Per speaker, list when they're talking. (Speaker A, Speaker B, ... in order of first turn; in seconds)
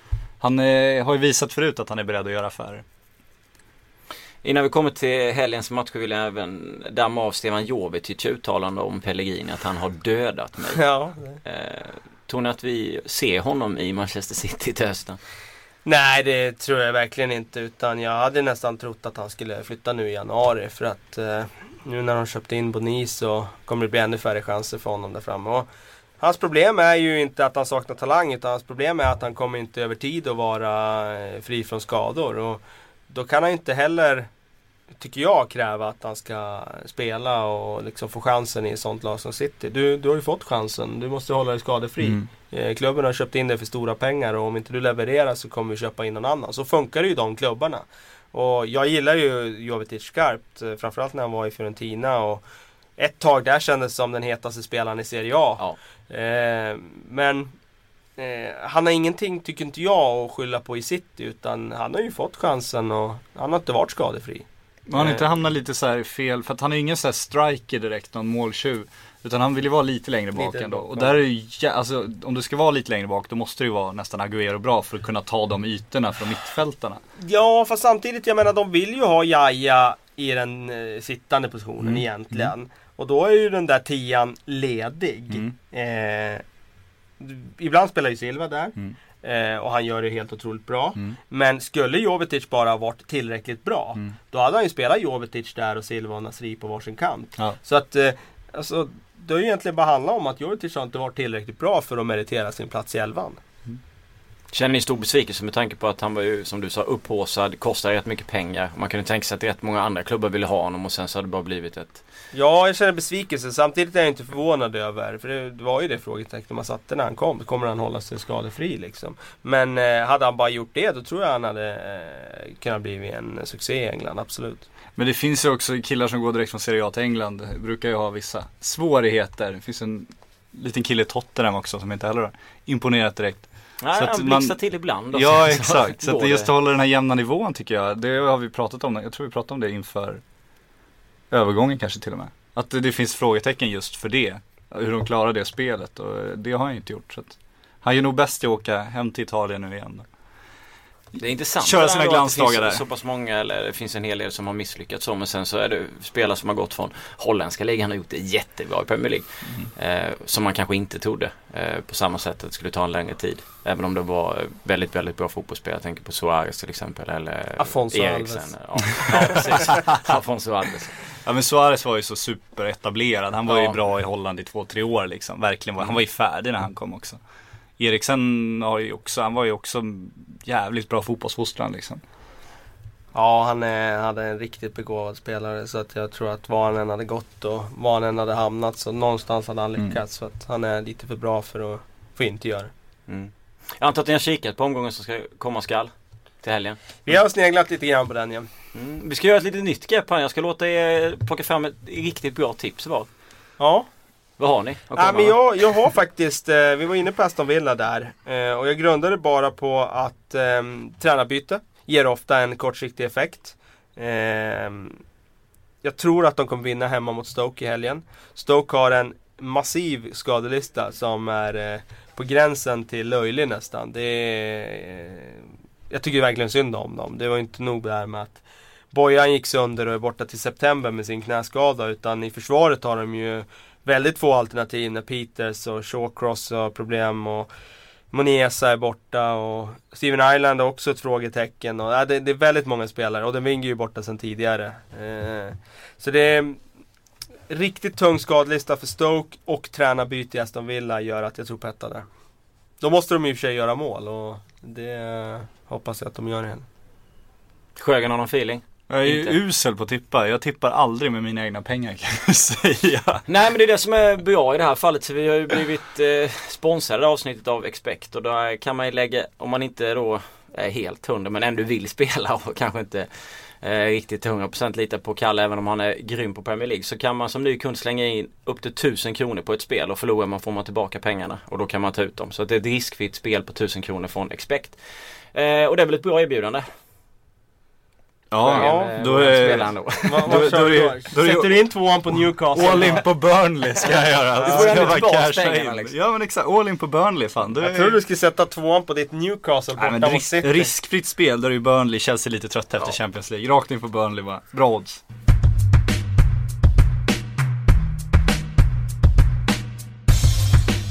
Speaker A: 0.4-2.8, 64.9-77.0, 81.8-82.5, 125.0-134.6, 135.1-140.2, 141.3-150.1, 151.6-152.8, 171.2-177.2, 177.8-182.0, 258.9-263.2, 288.3-291.6, 292.5-298.0, 299.8-305.0
Speaker B: 4.4-15.2, 104.5-112.0, 133.8-136.5, 151.2-171.2, 173.5-173.8, 193.1-195.9, 196.4-196.8, 198.7-203.1, 204.4-205.4, 257.8-259.4, 263.3-286.7, 288.4-290.5, 294.4-295.9
Speaker C: 10.8-11.4, 15.8-25.7, 26.2-34.3, 34.9-52.4, 53.0-57.5, 58.2-65.2, 70.3-71.2, 77.2-86.4, 87.2-103.4, 112.3-124.7, 167.6-168.5, 169.0-169.4, 183.1-192.7, 197.1-198.5, 203.6-203.9, 205.0-215.0, 215.8-237.5, 238.1-246.6, 247.5-252.1, 252.8-256.6, 288.5-288.9, 290.0-293.1, 294.4-295.0, 297.6-300.7